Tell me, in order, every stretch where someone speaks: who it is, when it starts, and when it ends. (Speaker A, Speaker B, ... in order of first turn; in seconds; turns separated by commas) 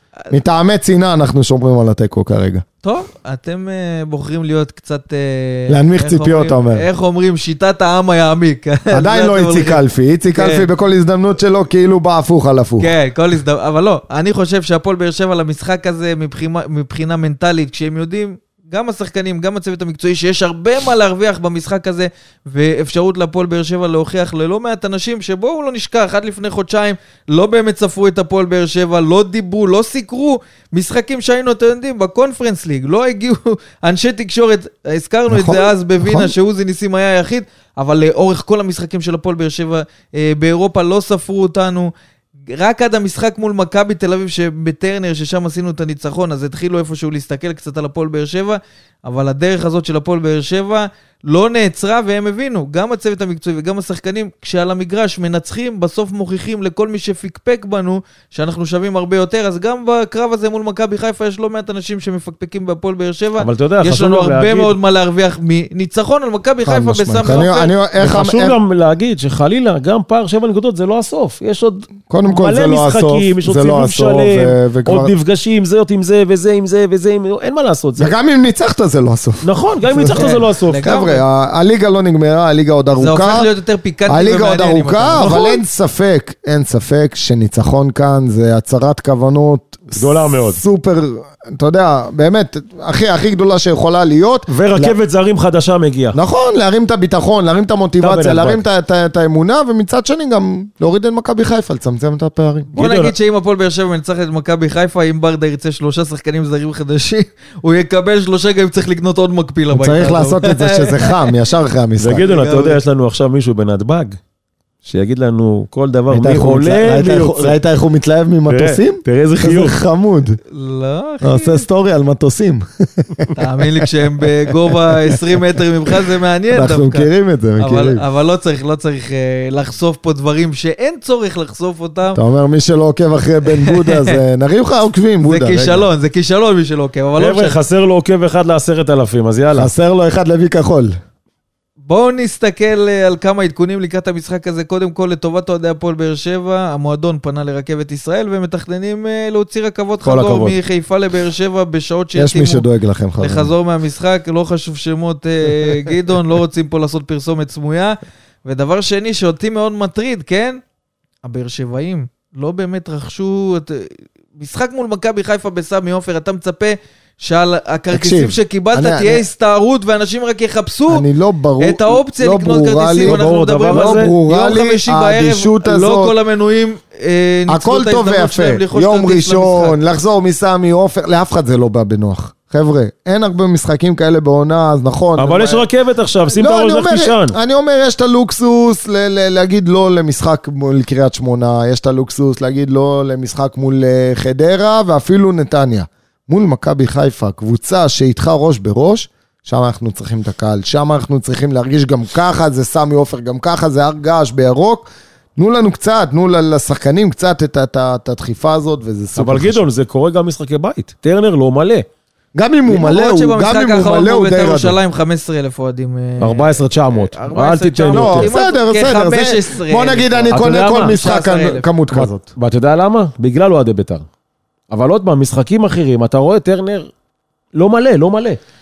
Speaker A: 0.3-2.6, Speaker B: 2.8-10.7, Speaker A: 5.7-6.8, Speaker A: 8.9-12.9, Speaker B: 12.8-41.9, Speaker A: 35.3-36.3, Speaker B: 42.5-67.7, Speaker C: 63.4-64.8, Speaker A: 66.7-68.6, Speaker C: 68.0-78.1, Speaker A: 72.1-75.1, Speaker A: 78.0-83.5, Speaker C: 79.4-80.8, Speaker B: 80.1-81.2, Speaker B: 83.0-85.6, Speaker A: 84.1-95.0, Speaker C: 90.0-90.6, Speaker C: 94.5-96.2, Speaker A: 96.1-102.7, Speaker C: 98.0-98.6, Speaker C: 102.7-103.1, Speaker B: 102.8-111.3, Speaker A: 109.7-112.3, Speaker C: 112.0-114.2, Speaker B: 112.2-112.8, Speaker C: 114.8-117.6, Speaker A: 116.1-120.4, Speaker C: 118.5-119.8, Speaker B: 120.5-121.7, Speaker A: 121.2-123.9, Speaker B: 123.4-132.2, Speaker A: 124.5-125.4, Speaker A: 126.5-128.0, Speaker A: 132.2-135.9, Speaker B: 133.5-134.2, Speaker B: 135.2-137.6, Speaker C: 137.2-139.7, Speaker A: 139.5-140.9, Speaker B: 141.8-152.7, Speaker C: 150.0-150.6, Speaker A: 152.2-153.5, Speaker B: 153.2-160.6, Speaker B: 161.2-171.1, Speaker A: 167.9-169.2, Speaker A: 170.9-176.2, Speaker B: 171.6-179.8, Speaker C: 173.0-174.1, Speaker A: 177.5-185.7, Speaker C: 185.2-187.3, Speaker A: 186.3-209.6, Speaker C: 209.2-211.9, Speaker A: 212.3-214.8, Speaker B: 212.7-221.7, Speaker C: 216.2-218.3, Speaker A: 217.9-222.3, Speaker C: 220.3-221.0, Speaker C: 221.9-224.0, Speaker C: 224.7-226.9, Speaker C: 227.5-228.4